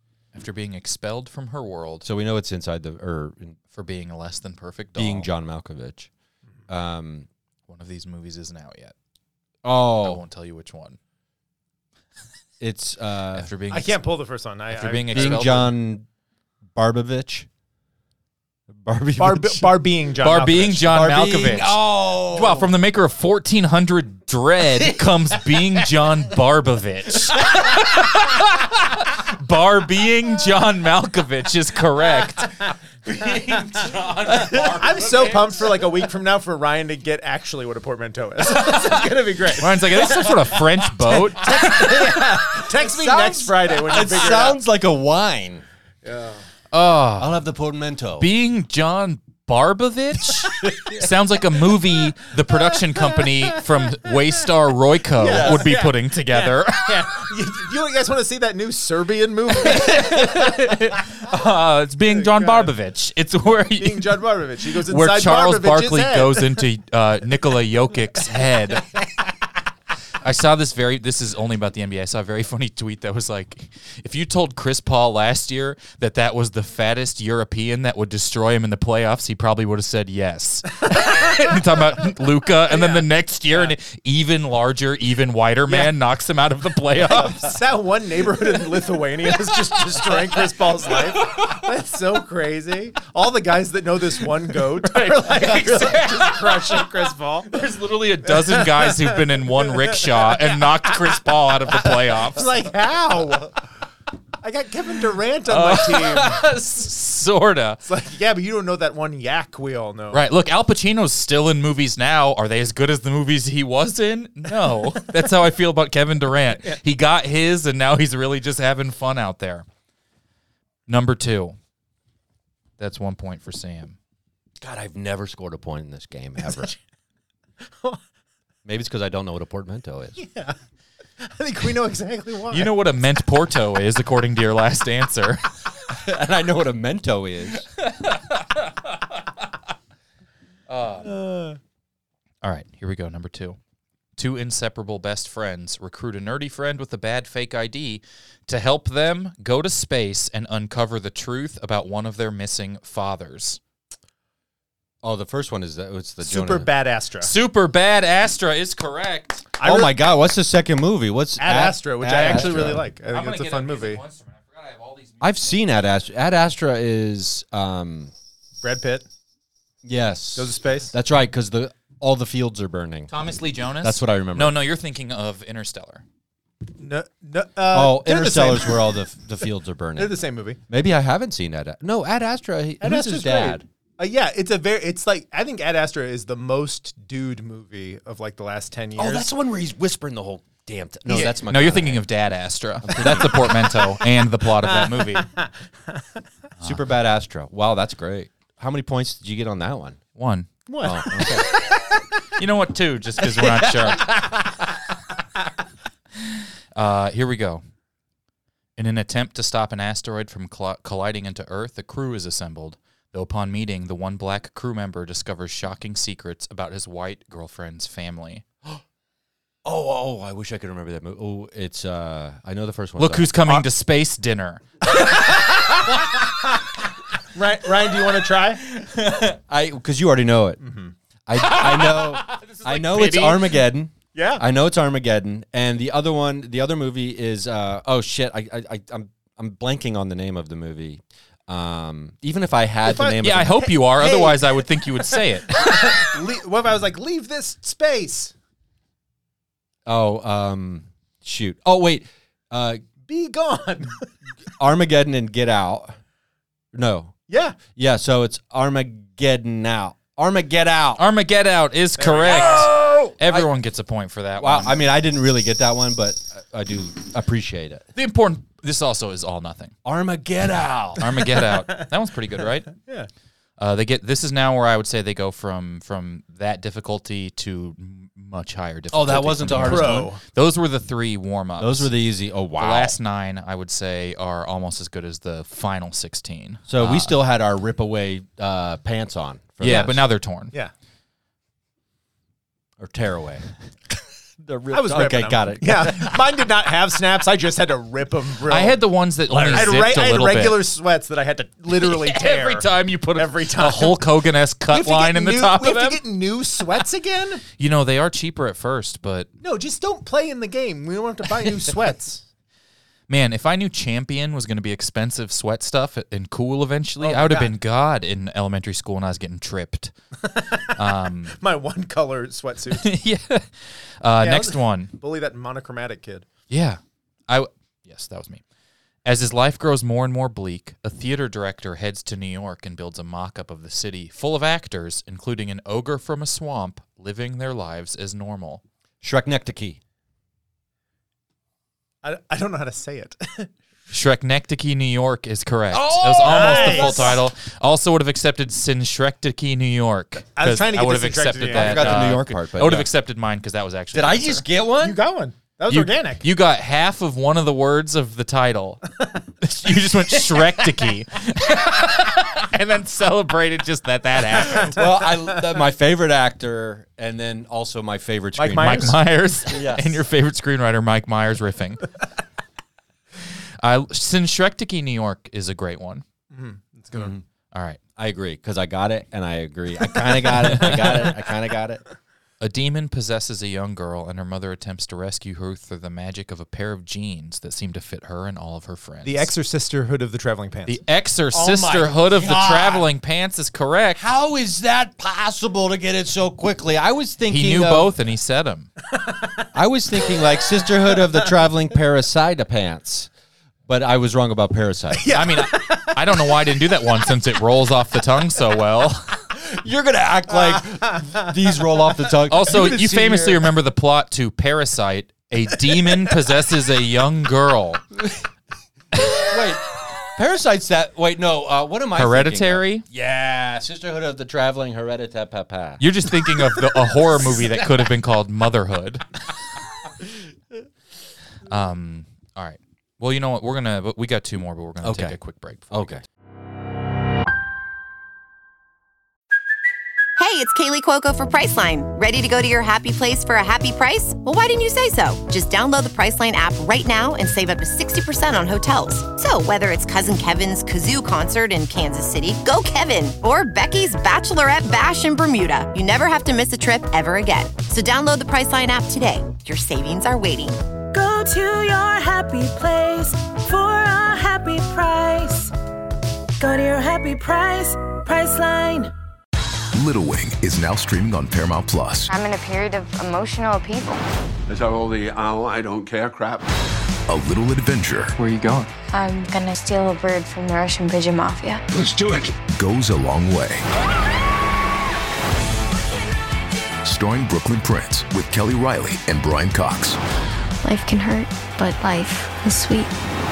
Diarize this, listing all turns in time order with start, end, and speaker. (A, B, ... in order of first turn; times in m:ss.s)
0:00.3-0:02.1 A
0:02.0-0:03.6 B
0:03.7-0:05.3 A
0:05.0-0:06.1 B
0:06.7-0:07.3 B
0:07.7-0:08.9 A
0:09.6-0:10.2 B
0:10.0-0:11.0 A
0:12.6-0:13.5 B
0:13.4-0:14.0 A
0:13.7-0:15.6 C
0:14.7-0:15.8 A
0:15.1-0:16.1 B
0:16.8-0:17.5 B
0:18.8-0:19.8 B
0:19.2-0:21.0 C
0:20.2-0:35.8 A
0:20.9-0:22.7 B
0:34.3-0:44.6 C
0:39.6-0:41.9 A
0:41.5-0:45.6 B
0:46.0-0:46.4 C
0:46.7-0:47.4 A
0:47.2-0:48.3 B
0:48.2-0:57.2 A
0:55.2-1:00.6 C
0:55.2-0:55.8 B
0:59.6-1:04.2 A
1:02.1-1:02.7 C
1:03.8-1:06.6 C
1:04.9-1:08.9 A
1:10.2-1:27.6 A
1:22.7-1:23.7 C
1:25.7-1:25.9 C
1:27.1-1:37.6 C
1:34.8-1:36.9 A
1:37.5-1:42.5 A
1:38.3-1:40.9 C
1:41.7-1:43.6 C
1:44.4-1:46.5 C
1:45.5-1:47.8 A
1:47.8-1:50.3 C
1:50.1-1:59.6 A
2:00.9-2:01.6 A
2:02.8-2:04.0 A
2:04.6-2:06.7 B
2:08.6-2:10.2 B
2:10.2-2:10.6 C
2:11.2-2:12.7 C
2:12.5-2:15.4 A
2:15.9-2:17.7 B
2:17.9-2:18.6 A
2:20.7-2:21.1 A
2:21.0-2:21.6 C
2:22.4-2:23.6 A
2:24.2-2:33.6 A
2:35.0-2:36.7 B
2:36.2-2:37.3 C
2:37.2-2:39.4 A
2:39.6-2:40.0 C
2:39.6-2:42.8 B
2:41.4-2:44.0 C
2:42.1-2:45.5 A
2:45.2-2:48.1 B
2:48.6-2:49.0 C
2:49.8-2:53.1 B
2:50.4-2:50.9 C
2:53.1-2:56.0 A
2:53.8-2:54.6 B
2:56.8-2:58.9 C
2:57.7-3:03.6 B
3:00.0-3:00.6 C
3:02.8-3:09.3 C
3:09.0-3:12.1 B
3:11.2-3:15.3 A
3:12.8-3:13.6 B
3:14.6-3:16.0 C
3:16.6-3:16.8 A
3:16.6-3:20.0 B
3:20.2-3:20.5 A
3:20.7-3:21.5 C
3:20.8-3:21.5 B
3:22.4-3:24.2 A
3:26.2-3:27.6 A
3:28.8-3:38.4 A
3:39.6-3:43.3 B
3:43.0-3:44.6 A
3:47.3-3:48.6 C
3:48.8-3:49.4 A
3:49.5-3:50.6 B
3:50.6-3:50.9 C
3:51.3-4:03.7 B
3:51.4-3:53.6 A
3:54.1-3:54.4 C
4:02.8-4:08.3 C
4:03.2-4:05.7 A
4:09.9-4:12.8 B
4:13.0-4:14.0 C
4:14.6-4:16.0 B
4:16.7-4:17.1 B
4:17.3-4:17.6 C
4:17.7-4:21.0 B
4:21.0-4:24.8 A
4:22.0-4:23.1 C
4:22.2-4:23.5 B
4:24.4-4:27.9 B
4:27.9-4:29.8 A
4:29.8-4:31.3 B
4:31.0-4:32.7 A
4:32.7-4:33.1 C
4:33.6-4:41.9 A
4:38.9-4:40.1 B
4:39.5-4:40.2 C
4:41.6-4:43.0 B
4:42.6-4:47.2 A
4:46.7-4:50.0 B
4:49.6-4:50.5 A
4:49.6-4:50.0 C
4:52.8-4:53.5 B
4:54.4-4:56.2 B
4:54.7-5:04.1 C
4:58.5-5:00.6 A
5:01.7-5:06.0 A
5:04.7-5:07.4 C
5:07.6-5:09.3 A
5:09.4-5:12.2 C
5:13.1-5:19.9 A
5:17.0-5:17.6 C
5:20.2-5:20.7 C
5:20.7-5:21.4 A
5:21.4-5:22.9 C
5:22.8-5:24.9 A
5:24.2-5:26.3 C
5:26.5-5:28.4 A
5:29.0-5:38.6 A
5:39.0-5:39.8 B
5:42.0-5:43.5 C
5:43.9-5:54.4 A
5:45.7-5:47.2 B
5:46.2-5:47.2 C
5:50.4-5:52.2 C
5:51.5-5:52.9 B
5:53.9-5:55.0 B
5:54.8-5:56.2 C
5:55.7-5:58.8 A
5:59.4-6:04.8 A
6:04.6-6:10.0 B
6:08.4-6:09.0 C
6:08.6-6:11.9 A
6:13.6-6:16.0 A
6:16.3-6:17.1 C
6:16.9-6:17.2 B
6:17.5-6:17.8 A
6:18.0-6:21.8 B
6:22.4-6:29.3 A
6:29.0-6:30.8 C
6:30.6-6:34.0 A
6:31.3-6:32.1 C
6:32.1-6:32.9 B
6:34.0-6:37.9 B
6:37.3-6:38.7 A
6:39.0-6:39.4 C
6:39.5-6:43.1 B
6:43.7-6:45.2 B
6:44.9-6:46.5 C
6:45.1-6:49.1 A
6:49.3-6:53.5 B
6:52.3-6:57.8 A
6:59.1-7:05.8 B
7:02.0-7:02.9 A
7:05.8-7:09.0 A
7:11.5-7:16.0 A
7:14.8-7:15.2 B
7:15.7-7:16.0 B
7:20.2-7:40.6 D
7:40.9-7:45.5 E
7:46.4-7:48.9 E
7:49.7-7:52.1 F
7:52.1-7:54.0 G
7:54.5-7:56.5 H
7:57.1-7:58.2 F
7:58.9-8:01.6 G
8:01.7-8:02.4 H
8:02.5-8:03.6 F
8:06.8-8:10.0 F
8:10.6-8:12.9 G